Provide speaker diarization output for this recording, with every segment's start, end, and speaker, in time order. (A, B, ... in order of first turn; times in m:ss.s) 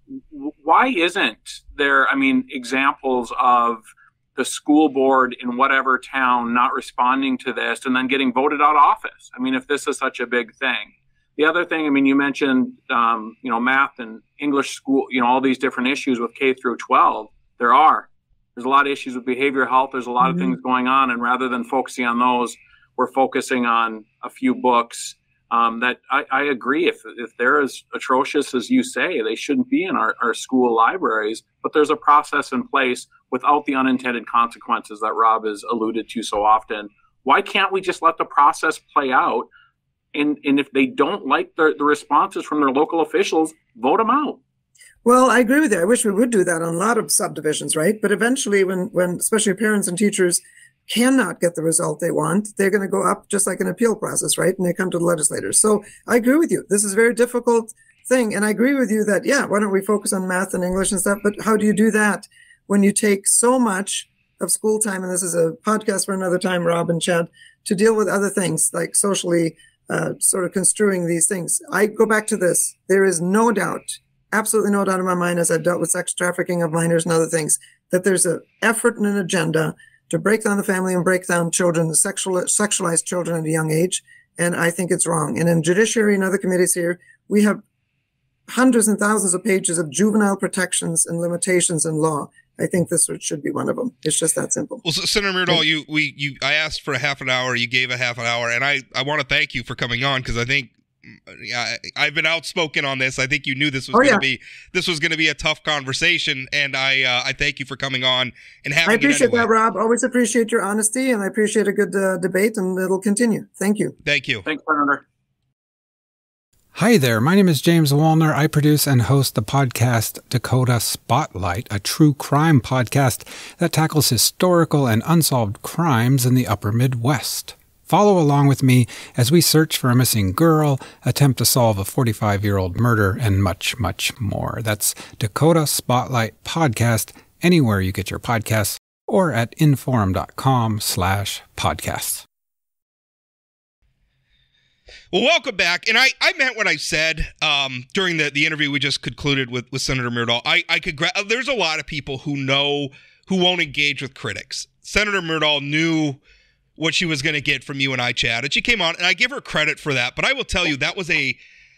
0:00.3-0:39.5 A
0:20.2-0:20.5 B
0:40.1-0:44.4 A
0:45.0-1:27.6 B
1:28.5-1:34.8 B
1:34.8-1:49.5 C
1:43.9-1:44.2 B
1:48.8-1:53.9 B
1:54.0-1:54.4 C
1:54.4-1:55.0 A
1:56.7-2:22.2 D
2:25.1-2:36.2 C
2:36.8-2:41.4 C